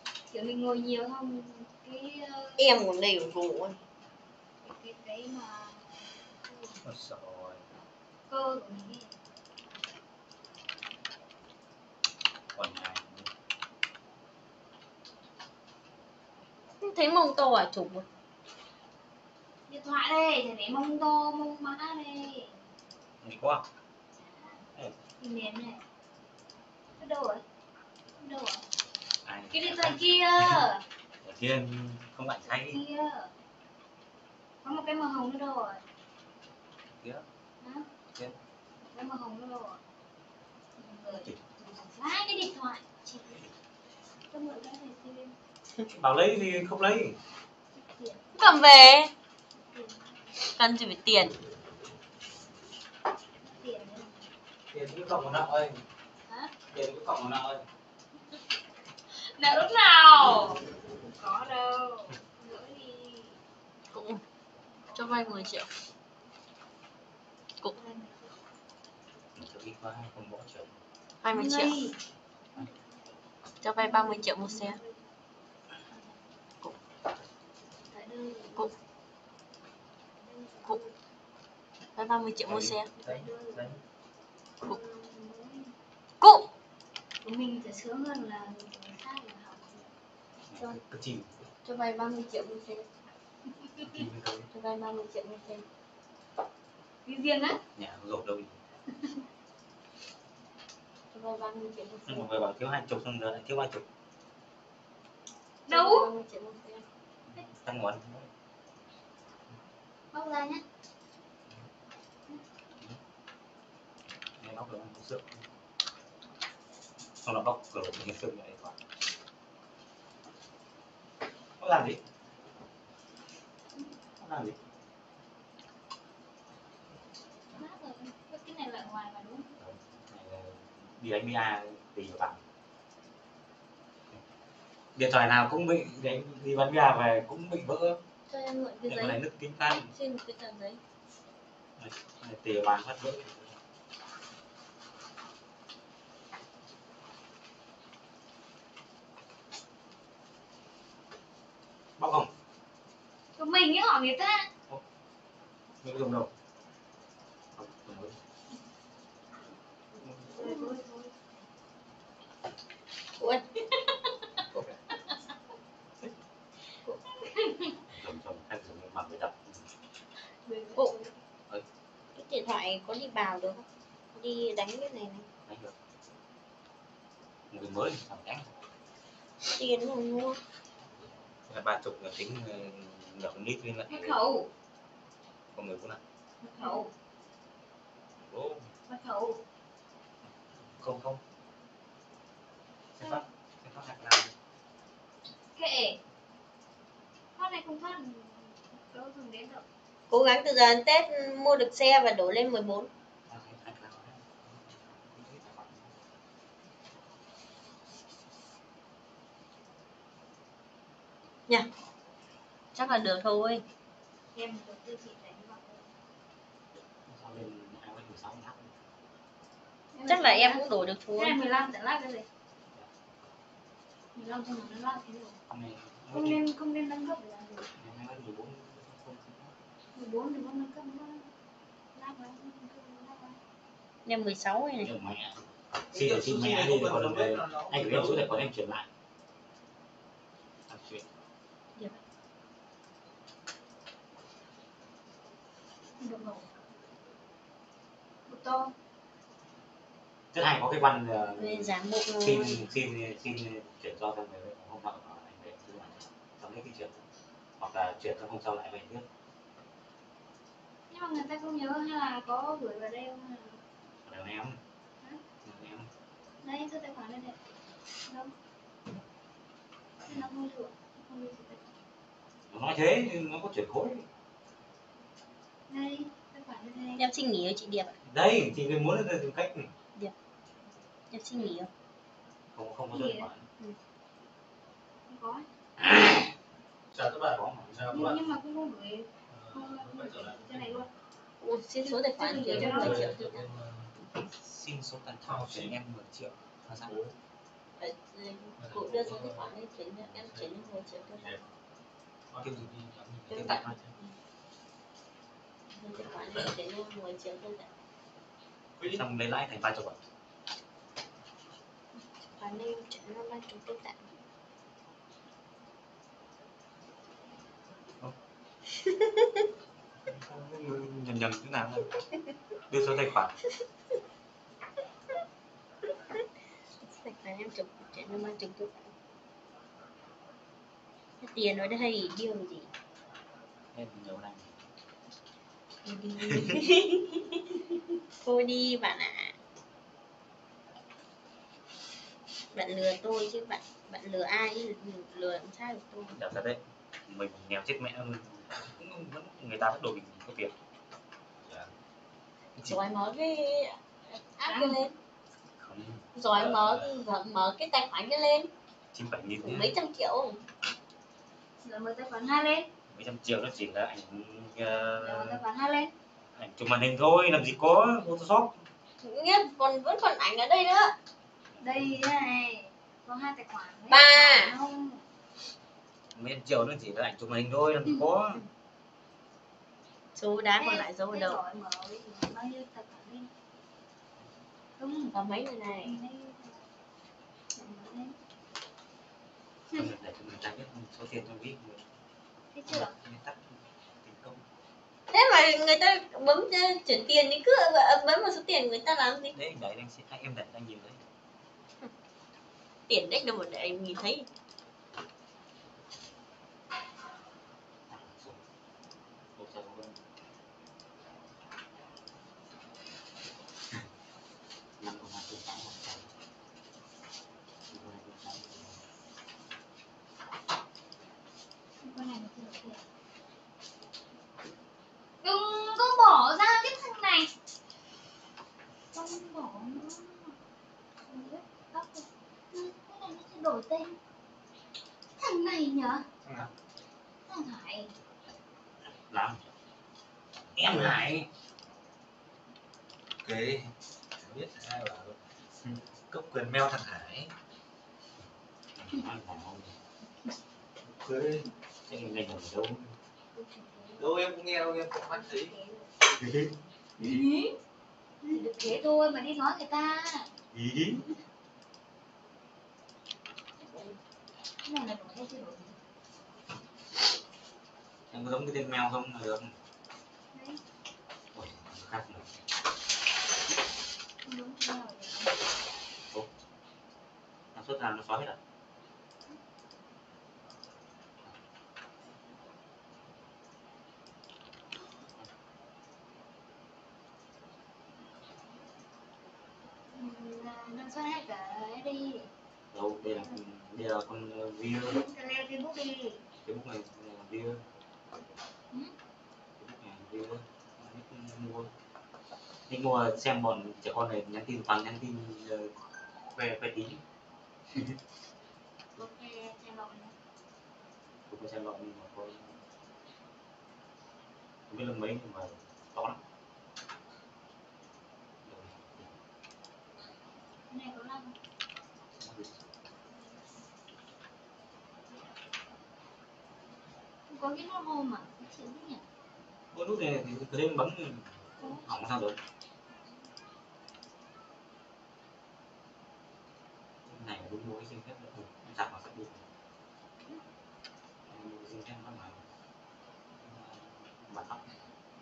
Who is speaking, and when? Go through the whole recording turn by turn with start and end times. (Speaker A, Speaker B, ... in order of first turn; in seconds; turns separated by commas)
Speaker A: 0.3-2.6, Speaker B: 2.6-3.8, Speaker A: 4.6-6.8, Speaker C: 6.8-7.8, Speaker A: 8.3-9.1, Speaker C: 12.5-13.3, Speaker B: 16.8-18.1, Speaker A: 19.7-22.6, Speaker C: 23.2-23.6, Speaker A: 24.1-24.6, Speaker A: 25.2-25.8, Speaker A: 27.0-27.4, Speaker A: 28.2-28.7, Speaker C: 29.2-30.6, Speaker A: 29.5-30.8, Speaker C: 31.2-32.8, Speaker A: 32.5-33.3, Speaker A: 34.6-35.8, Speaker A: 37.6-37.9, Speaker A: 38.8-39.8, Speaker A: 40.8-43.5, Speaker A: 44.3-45.3, Speaker C: 45.9-47.2, Speaker A: 47.8-48.4, Speaker B: 48.4-49.1, Speaker A: 49.5-50.2, Speaker B: 50.6-51.4, Speaker A: 53.4-54.3, Speaker C: 54.7-55.8, Speaker A: 56.2-56.5, Speaker C: 56.7-57.6, Speaker A: 59.1-63.4, Speaker B: 63.9-64.2, Speaker A: 64.8-65.5, Speaker B: 64.9-65.7, Speaker A: 67.7-68.3, Speaker C: 69.3-70.7, Speaker B: 71.2-71.8, Speaker A: 71.3-72.0, Speaker A: 72.5-73.2, Speaker B: 73.6-74.8, Speaker A: 73.8-75.1, Speaker A: 75.9-76.2, Speaker A: 77.9-78.7, Speaker A: 80.2-80.9, Speaker B: 82.0-82.9, Speaker C: 82.4-82.8, Speaker A: 83.0-83.7, Speaker A: 84.6-85.7, Speaker B: 86.2-86.5, Speaker A: 87.2-89.8, Speaker C: 90.5-91.5, Speaker B: 91.6-92.9, Speaker A: 93.7-94.0, Speaker C: 93.8-94.5, Speaker B: 94.5-95.7, Speaker A: 97.0-97.6, Speaker C: 97.8-98.6, Speaker B: 101.1-102.3, Speaker C: 102.1-103.8, Speaker A: 105.7-106.1, Speaker B: 105.7-106.8, Speaker C: 107.3-108.3, Speaker A: 110.1-110.6, Speaker C: 114.4-115.4, Speaker C: 117.2-118.8, Speaker C: 121.6-122.0, Speaker C: 124.2-124.6, Speaker A: 127.5-129.5, Speaker C: 129.6-132.4, Speaker C: 134.9-138.0, Speaker B: 138.3-140.8, Speaker C: 138.8-139.9, Speaker C: 141.8-143.6, Speaker C: 152.0-152.3, Speaker A: 153.4-154.5, Speaker C: 155.8-156.3, Speaker C: 157.6-158.2, Speaker A: 160.4-161.2, Speaker B: 160.4-160.7, Speaker B: 163.2-163.4, Speaker A: 166.8-167.8, Speaker C: 167.9-169.8, Speaker A: 170.5-171.1, Speaker B: 172.2-175.2, Speaker C: 175.4-175.8, Speaker C: 177.5-178.6, Speaker B: 179.4-180.4, Speaker C: 181.5-184.2, Speaker A: 183.9-184.5, Speaker C: 185.5-186.0, Speaker A: 186.5-186.9, Speaker C: 188.2-188.7, Speaker A: 188.9-189.4, Speaker C: 190.6-191.2, Speaker C: 192.9-194.3, Speaker A: 195.5-196.0, Speaker A: 197.4-199.6, Speaker B: 200.1-202.9, Speaker C: 203.3-205.9, Speaker B: 212.7-213.6, Speaker A: 214.3-215.9, Speaker C: 216.9-218.8, Speaker A: 219.9-220.7, Speaker B: 220.1-221.4, Speaker A: 221.2-222.2, Speaker A: 224.1-225.4, Speaker C: 225.5-226.4, Speaker A: 226.1-227.8, Speaker C: 227.7-229.5, Speaker A: 229.9-231.3, Speaker A: 231.9-233.4, Speaker B: 234.1-234.9, Speaker C: 234.8-238.9, Speaker D: 235.9-238.4, Speaker C: 240.7-241.1, Speaker A: 246.0-246.5, Speaker A: 248.3-248.7, Speaker C: 250.3-257.0, Speaker B: 251.4-252.7, Speaker C: 257.6-259.1, Speaker A: 260.9-263.6, Speaker C: 264.0-264.6, Speaker C: 265.4-265.9, Speaker A: 266.4-267.4, Speaker A: 268.1-268.3, Speaker A: 270.1-271.8, Speaker C: 272.5-274.1, Speaker A: 275.7-277.1, Speaker B: 277.0-278.0, Speaker C: 278.0-279.7, Speaker B: 281.1-281.7, Speaker C: 282.5-283.4, Speaker A: 282.9-283.3, Speaker A: 285.1-285.5, Speaker C: 285.8-286.1, Speaker D: 286.9-288.2, Speaker C: 287.3-288.2, Speaker A: 287.9-290.9, Speaker D: 289.3-290.9, Speaker B: 291.4-293.4, Speaker A: 291.9-293.1, Speaker D: 292.2-293.9, Speaker C: 294.1-297.0, Speaker D: 295.2-295.7, Speaker D: 296.8-297.1, Speaker B: 297.8-301.4, Speaker D: 298.6-299.5, Speaker D: 300.1-300.5, Speaker D: 301.1-301.4, Speaker C: 302.3-303.8, Speaker D: 302.3-303.6, Speaker B: 303.3-304.1, Speaker B: 305.7-307.7, Speaker D: 308.8-309.0, Speaker C: 308.8-310.0, Speaker B: 312.3-314.0, Speaker B: 318.8-319.4, Speaker C: 320.1-322.0, Speaker C: 322.7-323.4, Speaker B: 326.8-328.9, Speaker B: 331.2-332.7, Speaker C: 333.7-334.6, Speaker B: 335.8-337.6, Speaker C: 336.2-336.6, Speaker B: 338.2-339.4, Speaker B: 342.5-346.2, Speaker C: 346.1-350.5, Speaker B: 352.6-354.9, Speaker A: 354.4-354.8, Speaker C: 355.6-356.1, Speaker B: 356.1-358.5, Speaker D: 356.3-356.7, Speaker C: 358.9-359.7, Speaker B: 359.4-360.4, Speaker A: 361.6-362.7, Speaker C: 362.9-365.4, Speaker A: 365.0-365.9, Speaker C: 366.4-368.6, Speaker B: 369.0-370.9, Speaker A: 371.6-375.0, Speaker B: 373.9-374.5, Speaker C: 376.1-378.4, Speaker B: 380.1-381.4, Speaker A: 380.6-383.3, Speaker A: 384.8-385.1, Speaker B: 385.1-385.9, Speaker A: 385.8-386.7, Speaker A: 387.5-388.2, Speaker C: 389.7-391.9, Speaker A: 392.5-392.9, Speaker C: 392.7-394.4, Speaker B: 395.1-399.4, Speaker C: 399.3-401.0, Speaker B: 402.9-404.2, Speaker C: 407.9-408.4, Speaker C: 409.4-410.0, Speaker C: 414.8-416.1, Speaker C: 417.7-418.8, Speaker A: 421.8-422.8, Speaker A: 425.2-427.3, Speaker A: 428.9-430.3, Speaker A: 431.0-434.0, Speaker A: 435.2-436.1, Speaker D: 436.2-436.5, Speaker A: 437.3-437.9, Speaker C: 438.8-439.4, Speaker C: 440.5-441.3, Speaker D: 443.2-445.2, Speaker D: 446.1-447.3, Speaker C: 448.8-449.8, Speaker D: 450.9-451.4, Speaker C: 451.9-452.9, Speaker A: 453.3-454.1, Speaker D: 454.0-455.5, Speaker A: 455.1-455.9, Speaker C: 456.1-456.6, Speaker A: 457.0-457.5, Speaker A: 458.2-460.3, Speaker C: 460.5-461.1, Speaker A: 464.6-465.8, Speaker C: 468.1-469.6, Speaker A: 470.3-470.6, Speaker C: 471.3-472.3, Speaker A: 474.2-475.4, Speaker C: 477.5-478.4, Speaker A: 489.9-492.3, Speaker C: 492.7-495.0, Speaker A: 494.9-496.2, Speaker C: 496.4-497.6, Speaker C: 499.6-501.7, Speaker C: 502.7-507.0, Speaker C: 507.7-508.0, Speaker A: 508.9-510.1, Speaker C: 511.3-512.6, Speaker C: 514.7-516.2, Speaker C: 518.4-519.2, Speaker A: 520.7-521.4, Speaker C: 522.2-522.6, Speaker A: 527.3-529.0, Speaker C: 529.7-532.4, Speaker A: 531.6-531.9, Speaker C: 537.1-539.5, Speaker C: 541.3-542.4, Speaker C: 543.4-544.8